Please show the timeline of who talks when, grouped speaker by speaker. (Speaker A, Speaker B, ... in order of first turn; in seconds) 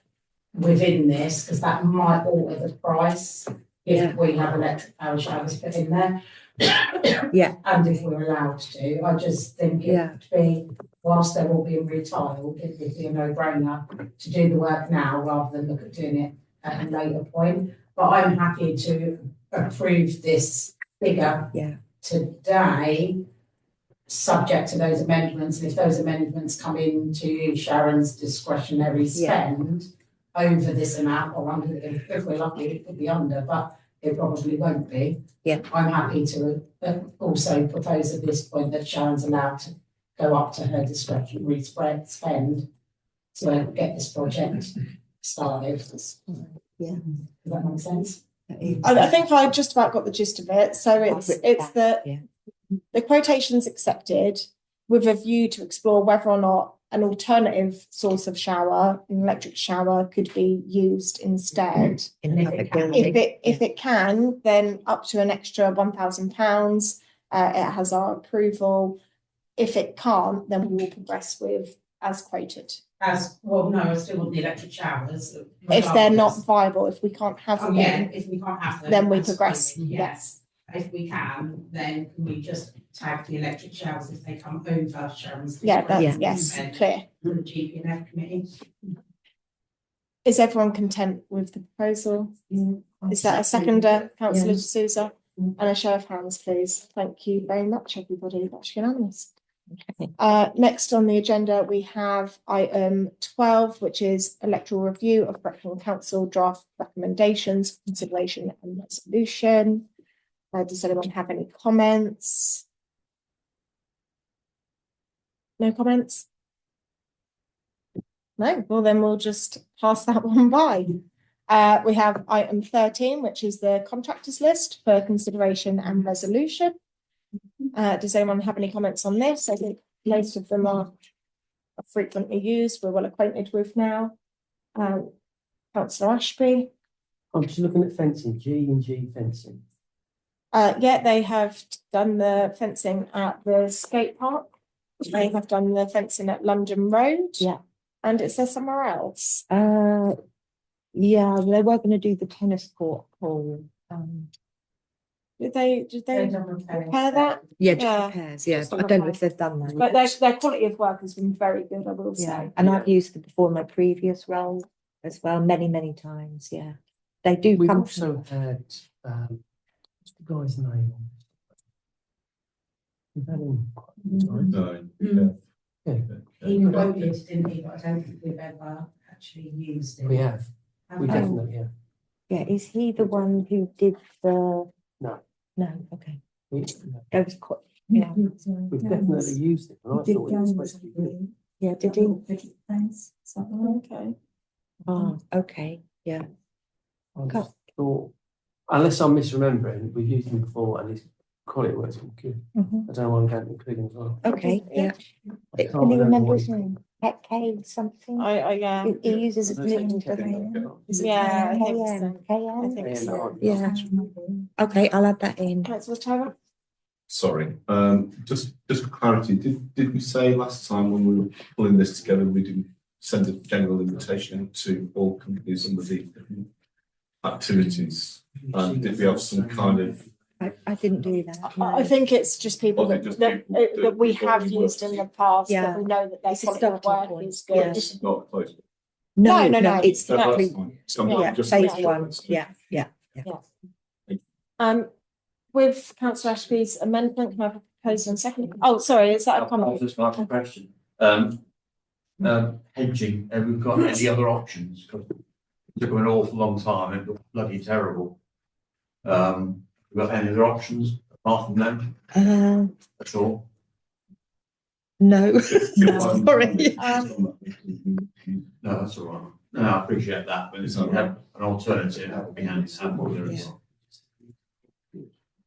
Speaker A: 0.5-23.2, 24.1-42.7, 43.3-46.1, 47.4-48.2, 62.3-63.2, 73.0-76.4, 77.6-88.7, 156.1-157.6, 158.7-159.1, 174.1-175.3, 176.4-180.3, 180.9-181.3
Speaker B: 3.9-4.2, 7.3-8.1, 9.8-10.2, 21.5-21.8, 29.1-29.4, 46.3-47.1, 48.5-49.2, 51.1-52.2, 62.2-63.6, 86.0-86.2, 92.5-93.8, 94.3-94.6, 99.8-100.1, 149.5-150.2, 150.9-154.3, 157.6-160.0, 162.2-168.2, 181.1-181.4, 182.3-184.7, 185.6-186.2, 187.1-188.2, 191.6-192.2, 194.9-196.3, 202.6-202.9, 204.2-205.0, 205.6-208.3, 208.8-213.9, 214.6-215.7, 230.4-231.9, 235.5-237.9, 239.2-243.3, 262.1-262.7, 265.0-267.0
Speaker C: 48.8-52.1, 52.9-62.1, 62.9-69.0, 69.6-72.8, 75.7-78.1, 78.9-80.4, 85.6-87.1, 90.2-92.6, 93.1-99.3, 100.2-109.9, 110.5-112.6, 115.6-116.3, 118.4-126.8, 127.7-130.9, 131.8-134.2, 134.8-135.1, 135.7-136.7, 140.5-144.5, 145.0-147.5, 148.0-149.4, 155.4-158.2, 159.8-162.5, 193.3-194.2, 204.3-204.9, 208.2-209.0, 210.9-214.2, 215.7-216.3, 231.4-237.9, 239.3-240.4, 241.1-241.9, 244.6-244.9, 245.5-249.8, 266.8-267.1
Speaker D: 137.3-139.6, 167.5-169.4, 170.1-171.2, 173.2-174.6, 175.8-176.9, 180.1-181.7, 183.0-183.2, 186.5-187.0, 188.7-191.2, 197.2-198.1, 198.7-204.2, 205.5-206.7, 209.4-211.0, 212.8-213.6, 228.4-230.1, 273.0-273.6
Speaker E: 174.5-175.4, 176.1-176.9, 209.9-210.7, 217.1-226.5, 227.2-230.0, 232.8-235.1, 237.5-238.6, 239.9-242.5, 265.6-268.5, 270.6-271.1, 271.9-273.0
Speaker F: 249.4-251.4, 252.2-255.1, 255.8-258.1, 259.0-261.9, 263.0-263.4, 268.6-273.5